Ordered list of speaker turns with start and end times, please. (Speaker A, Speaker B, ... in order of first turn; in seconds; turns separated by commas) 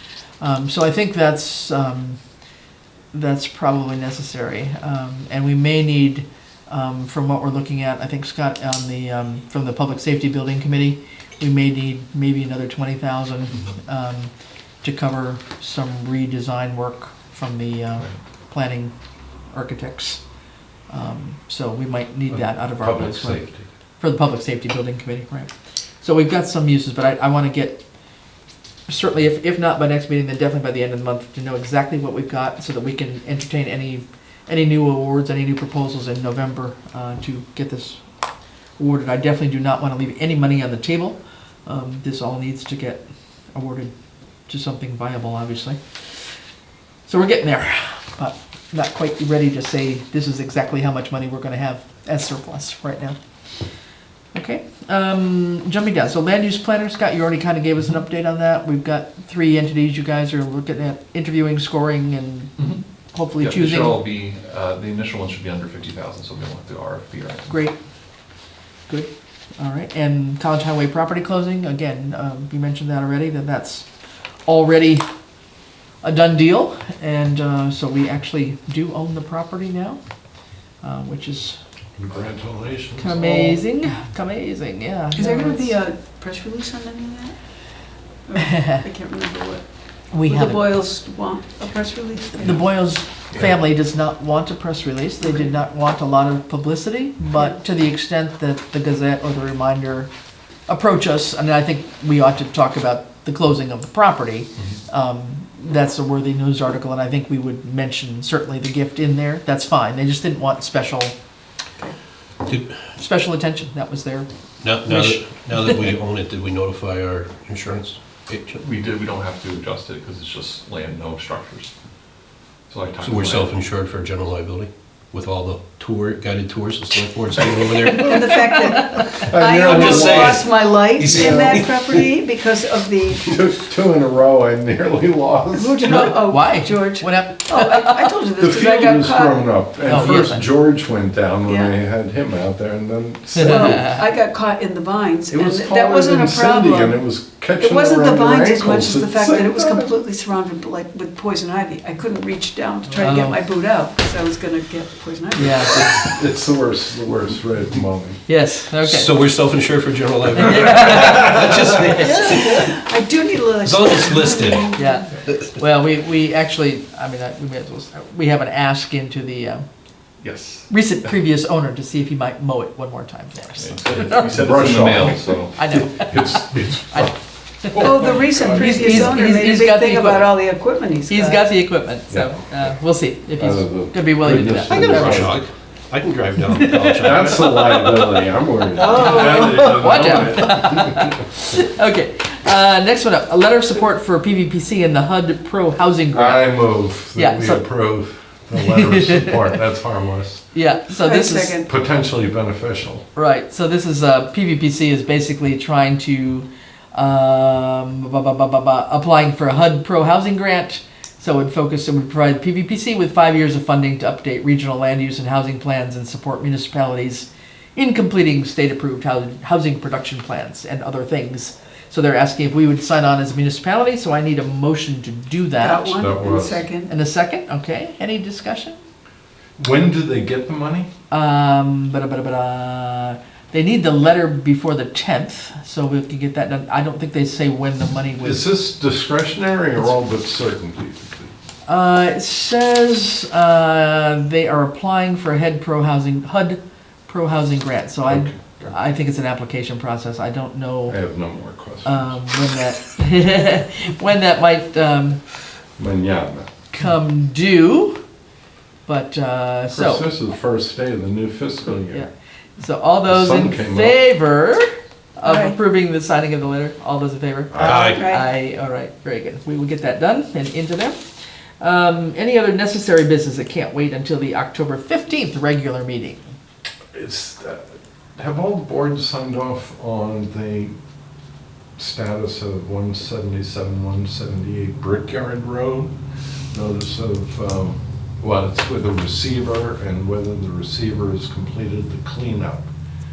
Speaker A: 0.4-2.2, Speaker A: 3.1-14.3, Speaker A: 14.8-18.9, Speaker A: 19.5-20.2, Speaker A: 20.9-23.5, Speaker B: 22.8-23.6, Speaker A: 24.0-25.5, Speaker A: 26.0-27.8, Speaker A: 28.9-38.0, Speaker A: 38.8-43.9, Speaker A: 44.5-45.8, Speaker A: 47.1-53.2, Speaker A: 54.3-62.6, Speaker A: 63.1-64.1, Speaker C: 63.4-67.6, Speaker A: 67.5-67.8, Speaker A: 68.9-73.9, Speaker A: 74.5-75.0, Speaker A: 76.0-80.0, Speaker A: 80.8-81.6, Speaker B: 82.0-83.6, Speaker A: 83.0-85.8, Speaker D: 85.2-87.4, Speaker D: 88.2-92.6, Speaker A: 90.1-90.7, Speaker A: 92.3-100.1, Speaker A: 100.7-111.2, Speaker A: 112.9-114.3, Speaker E: 114.6-118.6, Speaker A: 114.9-115.2, Speaker C: 118.6-121.7, Speaker C: 122.7-123.7, Speaker E: 123.0-128.5, Speaker D: 127.9-133.4, Speaker B: 129.2-130.4, Speaker E: 129.5-131.8, Speaker B: 133.2-136.1, Speaker D: 135.5-139.5, Speaker A: 135.8-138.1, Speaker B: 138.4-144.0, Speaker A: 139.8-140.5, Speaker D: 141.5-141.7, Speaker A: 143.3-143.9, Speaker D: 143.4-147.0, Speaker B: 145.3-149.9, Speaker D: 147.6-155.9, Speaker A: 153.0-153.4, Speaker A: 155.4-155.9, Speaker B: 155.6-158.2, Speaker A: 158.3-159.2, Speaker E: 158.8-162.7, Speaker A: 160.4-162.1, Speaker D: 161.9-165.1, Speaker E: 163.6-164.7, Speaker A: 164.8-169.7, Speaker E: 165.3-165.6, Speaker C: 170.2-170.7, Speaker A: 170.7-174.3, Speaker C: 173.6-175.6, Speaker B: 174.3-177.2, Speaker A: 175.5-178.0, Speaker B: 177.7-179.2, Speaker D: 177.8-181.5, Speaker A: 178.5-185.3, Speaker B: 182.1-182.4, Speaker B: 183.4-185.5, Speaker E: 184.6-187.8, Speaker A: 186.8-188.0, Speaker B: 187.0-191.2, Speaker D: 188.8-190.0, Speaker A: 188.8-196.6, Speaker B: 196.1-200.4, Speaker A: 197.1-197.7, Speaker A: 198.6-199.4, Speaker A: 200.5-201.6, Speaker D: 200.9-201.7, Speaker B: 201.7-203.0, Speaker A: 203.2-226.0, Speaker D: 225.6-226.9, Speaker B: 226.0-226.7, Speaker A: 226.9-228.8, Speaker B: 229.6-230.9, Speaker A: 231.1-238.5, Speaker B: 238.2-241.3, Speaker A: 241.7-251.0, Speaker B: 248.1-248.7, Speaker B: 250.9-252.2, Speaker A: 251.8-255.2, Speaker B: 255.8-256.5, Speaker A: 256.7-258.0, Speaker A: 258.9-260.1, Speaker B: 259.7-262.1, Speaker A: 261.9-271.0, Speaker B: 263.1-264.0, Speaker D: 265.2-265.6, Speaker B: 267.5-267.9, Speaker E: 267.6-268.0, Speaker D: 267.8-268.2, Speaker A: 271.6-276.3, Speaker B: 276.9-277.6, Speaker B: 278.2-280.7, Speaker B: 281.8-285.9, Speaker B: 286.5-292.7